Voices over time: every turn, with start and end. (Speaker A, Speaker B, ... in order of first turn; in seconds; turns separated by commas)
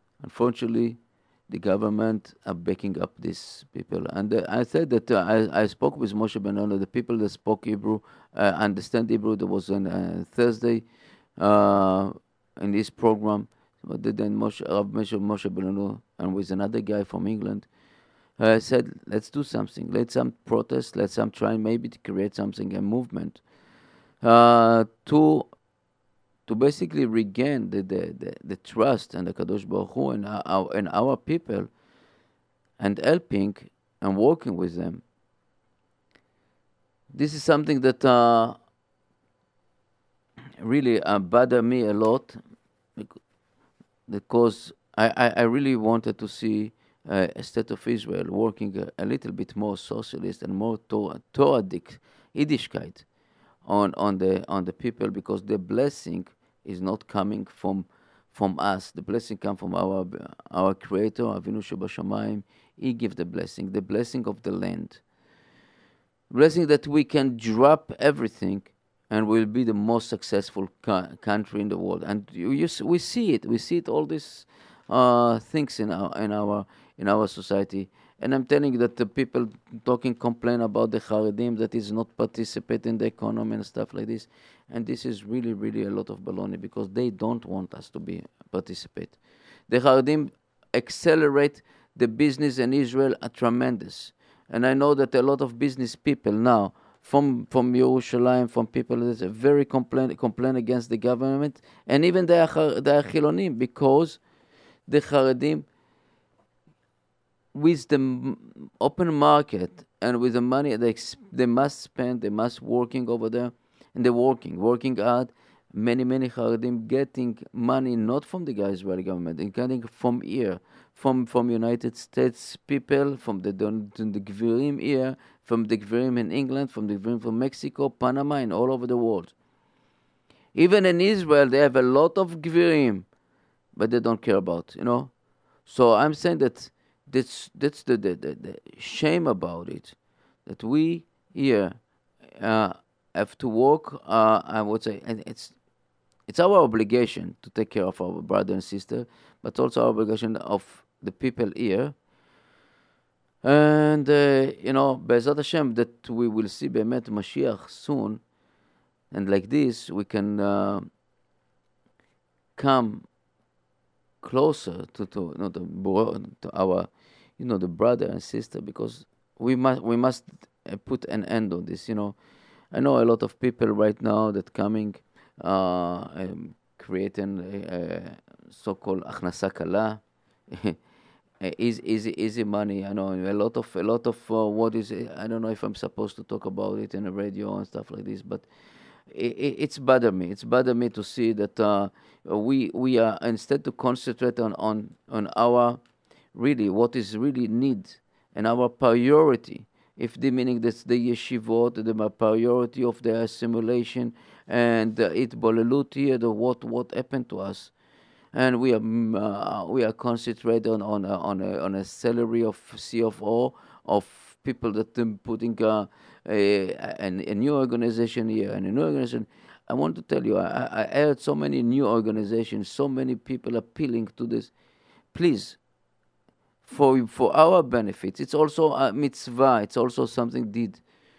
Speaker A: 0.2-10.8, Speaker A: 11.4-17.7, Speaker A: 18.4-23.4, Speaker A: 24.2-25.5, Speaker A: 26.5-31.7, Speaker A: 32.8-35.0, Speaker A: 37.1-38.6, Speaker A: 40.6-42.4, Speaker A: 44.1-53.1, Speaker A: 53.6-65.0, Speaker A: 66.3-89.2, Speaker A: 89.7-104.2, Speaker A: 104.9-105.7, Speaker A: 107.5-129.3, Speaker A: 130.5-133.1, Speaker A: 133.8-135.1, Speaker A: 135.7-141.8, Speaker A: 142.4-145.6, Speaker A: 146.3-151.9, Speaker A: 153.4-158.2, Speaker A: 159.1-160.9, Speaker A: 162.6-163.1, Speaker A: 164.2-172.2, Speaker A: 172.7-180.8, Speaker A: 181.4-188.4, Speaker A: 189.1-195.8, Speaker A: 196.3-207.7, Speaker A: 208.3-224.5, Speaker A: 225.1-225.6, Speaker A: 226.6-230.8